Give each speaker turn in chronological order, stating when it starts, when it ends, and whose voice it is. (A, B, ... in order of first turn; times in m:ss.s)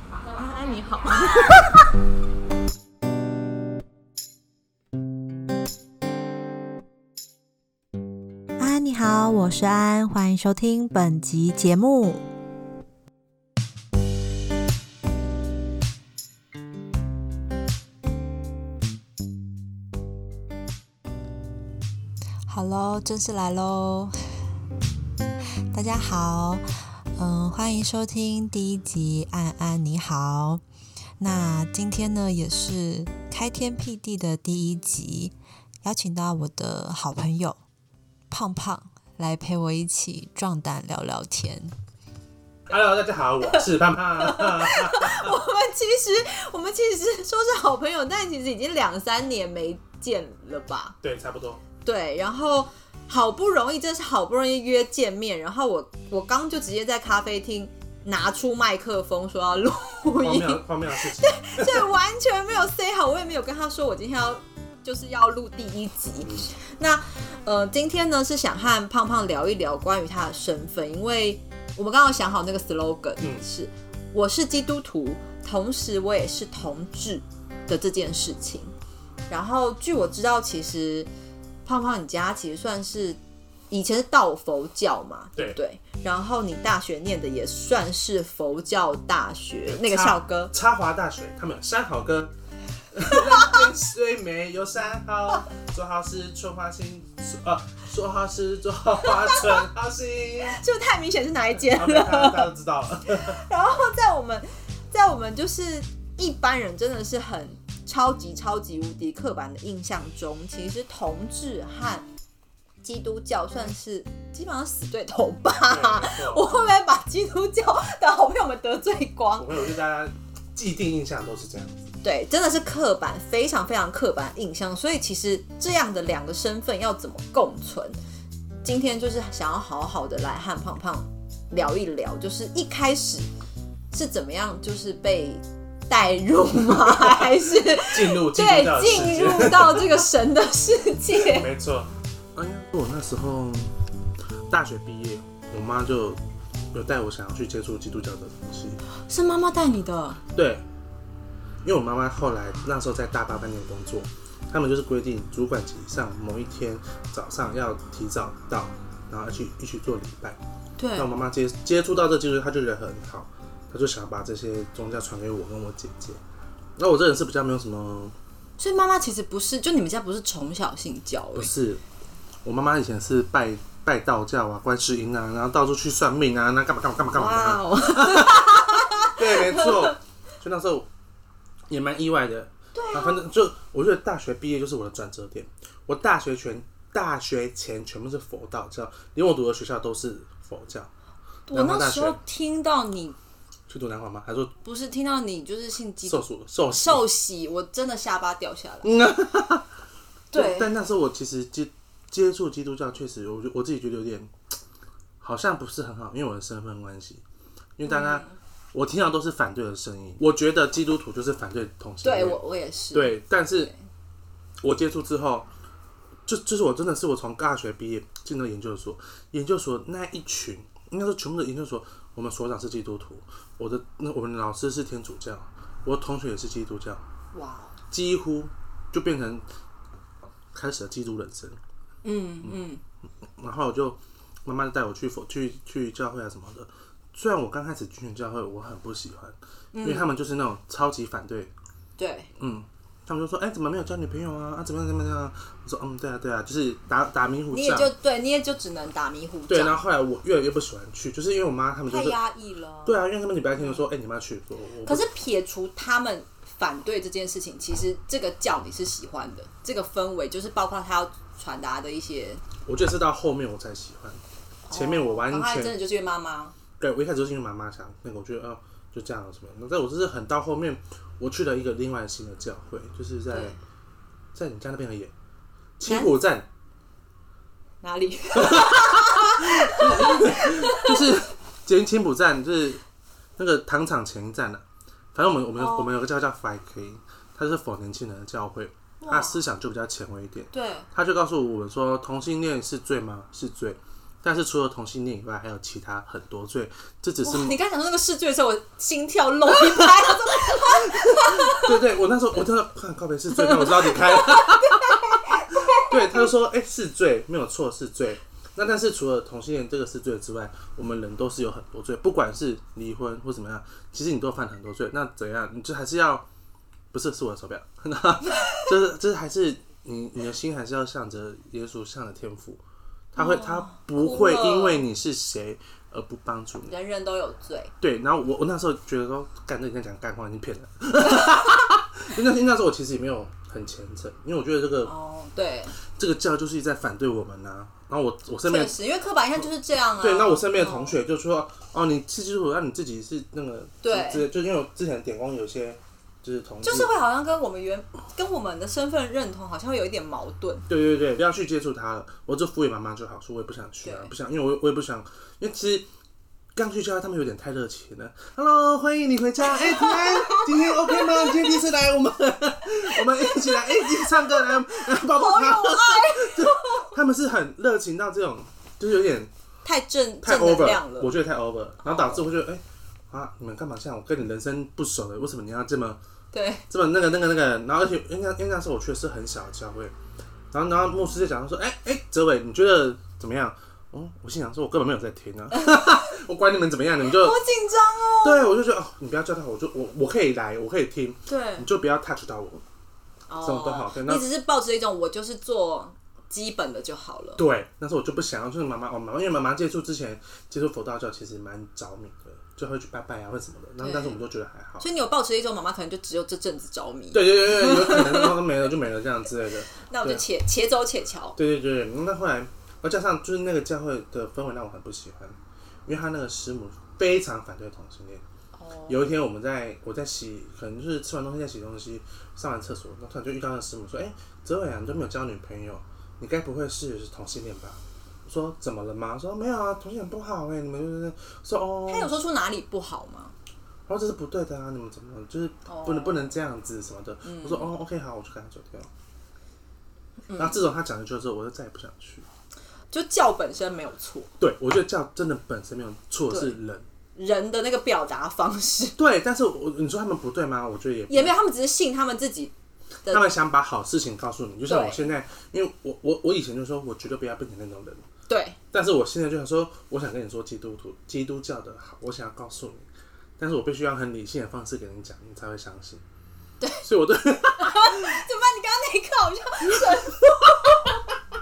0:00.3-0:01.9 A
0:08.6-0:12.2 B
0:22.5-0:24.2 A
0:25.7-0:26.6 A
0:27.2-0:30.6 A
0:31.2-0:35.3 A
0:35.8-0:37.6 A
0:38.3-0:41.7 A
0:42.7-0:45.3 C
0:44.2-0:51.0 A
0:51.0-0:51.6 C
0:51.8-1:18.7 A
1:00.2-1:01.9 C
1:06.2-1:06.5 C
1:19.3-1:21.1 A
1:21.6-1:23.2 A
1:23.7-1:30.5 A
1:29.6-1:32.3 C
1:32.9-1:40.6 C
1:33.2-1:33.4 A
1:39.0-1:39.6 A
1:40.4-1:42.5 A
1:41.5-1:43.4 C
1:43.0-1:52.1 A
1:52.8-1:59.6 A
1:55.6-1:56.5 C
1:59.4-2:01.9 C
2:02.0-2:08.0 A
2:08.6-2:13.3 A
2:13.9-2:21.5 A
2:16.8-2:20.0 C
2:21.1-2:23.8 C
2:24.5-2:26.2 C
2:26.7-2:28.8 C
2:28.9-2:30.2 A
2:30.3-2:30.6 C
2:31.6-2:40.4 C
2:40.8-2:41.1 A
2:41.0-2:46.2 C
2:46.8-2:48.2 C
2:48.6-2:51.5 A
2:51.3-2:51.8 C
2:52.4-3:00.9 C
2:57.1-2:59.9 A
3:01.7-3:10.9 C
3:02.7-3:03.3 A
3:11.5-3:13.2 A
3:11.5-3:12.2 C
3:13.7-3:14.5 C
3:14.6-3:18.9 A
3:16.0-3:17.0 C
3:18.8-3:19.6 C
3:20.3-3:20.7 A
3:20.3-3:24.3 C
3:25.2-3:27.2 C
3:27.8-3:32.4 C
3:27.8-3:28.4 A
3:32.0-3:33.8 A
3:32.9-3:33.7 C
3:34.6-3:35.5 C
3:36.3-3:47.0 C
3:47.3-3:47.8 A
3:47.9-3:49.4 C
3:50.5-3:51.6 C
3:52.0-3:52.8 A
3:53.4-4:01.5 C
3:59.7-4:00.1 A
4:02.0-4:02.3 A
4:02.4-4:07.9 C
4:07.5-4:09.8 A
4:09.5-4:12.2 C
4:11.9-4:13.8 A
4:12.8-4:15.1 C
4:14.8-4:22.4 A
4:22.6-4:25.8 C
4:24.7-4:26.6 A
4:26.8-4:33.6 C
4:33.3-4:33.6 A
4:34.3-4:35.1 C
4:35.8-4:36.5 C
4:35.9-4:36.1 A
4:37.8-4:41.1 A
4:38.3-4:42.8 C
4:43.4-4:57.6 C
4:45.5-4:45.9 A
4:49.0-4:49.4 A
4:50.5-4:50.9 A
4:57.2-5:01.8 A
5:00.5-5:16.2 C
5:03.3-5:06.3 A
5:16.9-5:22.6 C
5:23.1-5:26.8 C
5:23.2-5:24.9 A
5:26.6-5:27.7 A
5:27.8-5:34.9 C
5:34.8-5:35.8 A
5:35.8-5:38.8 C
5:38.4-5:41.0 A
5:40.0-5:46.9 C
5:43.8-5:44.3 A
5:46.6-5:50.7 A
5:50.7-5:55.9 C
5:53.8-5:54.1 A
5:56.5-6:09.3 C
5:59.4-6:01.6 A
6:03.0-6:07.0 A
6:09.6-6:11.1 A
6:10.2-6:16.0 C
6:11.8-6:12.3 A
6:16.3-6:16.6 A
6:16.7-6:19.9 C
6:20.5-6:27.4 C
6:25.5-6:26.1 A
6:27.0-6:28.5 A
6:28.2-6:32.6 C
6:31.3-6:31.7 A
6:33.3-6:37.4 A
6:33.4-6:34.3 C
6:37.4-6:44.9 C
6:43.8-6:44.2 A
6:44.8-6:48.4 A
6:47.1-6:50.2 C
6:49.8-6:51.4 A
6:51.4-6:58.2 C
6:58.6-6:59.1 A
6:58.9-7:12.2 C
7:11.9-7:13.3 A
7:13.9-7:18.9 C
7:15.6-7:16.4 A
7:17.2-7:17.7 A
7:20.3-7:20.6 A
7:20.3-7:22.3 C
7:22.9-7:24.3 A
7:24.4-7:26.8 C
7:26.3-7:26.6 A
7:27.2-7:29.0 A
7:29.0-7:31.3 C
7:31.1-7:32.5 A
7:33.1-7:38.0 C
7:34.7-7:35.1 A
7:38.3-7:38.6 A
7:38.7-7:42.9 C
7:43.4-7:46.0 C
7:46.6-7:46.8 A
7:46.8-7:48.2 C
7:47.6-7:51.1 A